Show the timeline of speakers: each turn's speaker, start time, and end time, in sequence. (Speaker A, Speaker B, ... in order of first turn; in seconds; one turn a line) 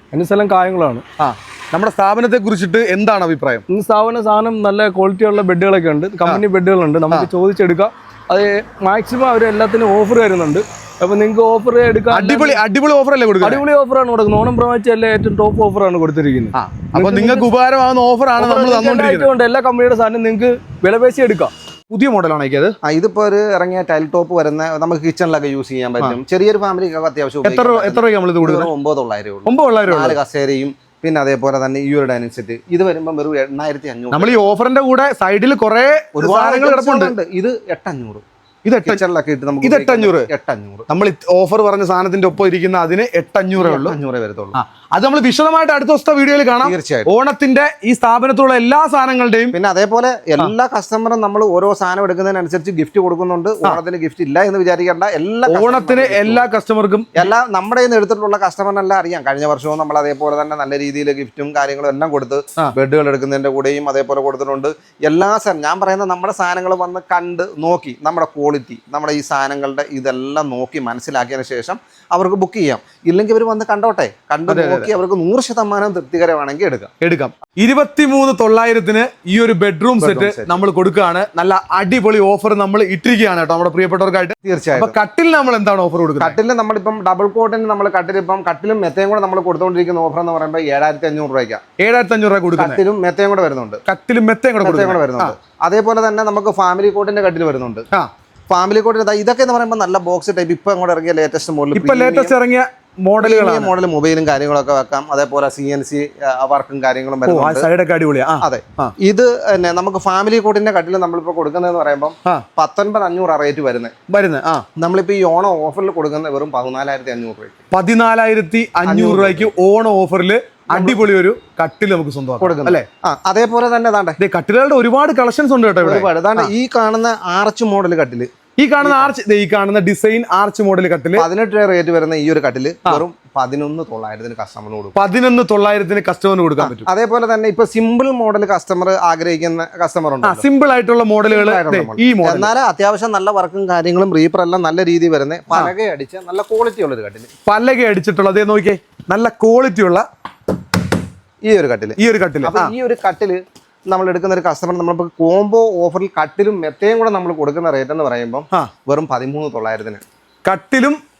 Speaker A: 0.1-1.0
Speaker B: 1.2-3.6
Speaker A: 3.7-12.6
Speaker B: 12.1-13.6
Speaker A: 13.4-17.4
Speaker B: 16.5-19.3
Speaker A: 18.4-21.5
Speaker B: 21.9-22.7
Speaker C: 22.8-34.4
Speaker B: 27.4-28.7
Speaker B: 29.4-30.2
Speaker B: 34.1-37.1
Speaker C: 36.1-38.2
Speaker B: 38.6-39.0
Speaker C: 38.8-40.9
Speaker B: 39.6-40.3
Speaker B: 40.9-44.0
Speaker C: 43.6-44.6
Speaker B: 44.5-49.5
Speaker C: 46.6-47.1
Speaker C: 49.5-56.5
Speaker B: 55.5-57.3
Speaker C: 57.1-76.9
Speaker B: 74.5-74.9
Speaker B: 77.0-86.4
Speaker C: 80.0-80.5
Speaker C: 84.4-85.0
Speaker C: 86.2-91.6
Speaker B: 91.8-92.8
Speaker C: 92.6-93.8
Speaker B: 93.8-95.3
Speaker C: 94.6-97.9
Speaker C: 98.5-102.3
Speaker B: 101.7-103.7
Speaker C: 103.2-107.7
Speaker B: 107.2-108.9
Speaker C: 108.4-113.9
Speaker B: 114.1-114.7
Speaker C: 114.8-117.5
Speaker B: 117.7-122.8
Speaker C: 118.8-119.5
Speaker C: 120.7-121.0
Speaker C: 122.4-124.2
Speaker B: 124.2-126.5
Speaker C: 125.8-128.3
Speaker B: 128.6-131.3
Speaker C: 128.8-129.1
Speaker C: 131.2-134.9
Speaker B: 134.9-136.9
Speaker C: 136.6-140.4
Speaker B: 140.2-142.5
Speaker C: 141.3-147.3
Speaker B: 147.4-150.0
Speaker C: 151.4-160.0
Speaker B: 152.0-152.7
Speaker B: 160.4-161.0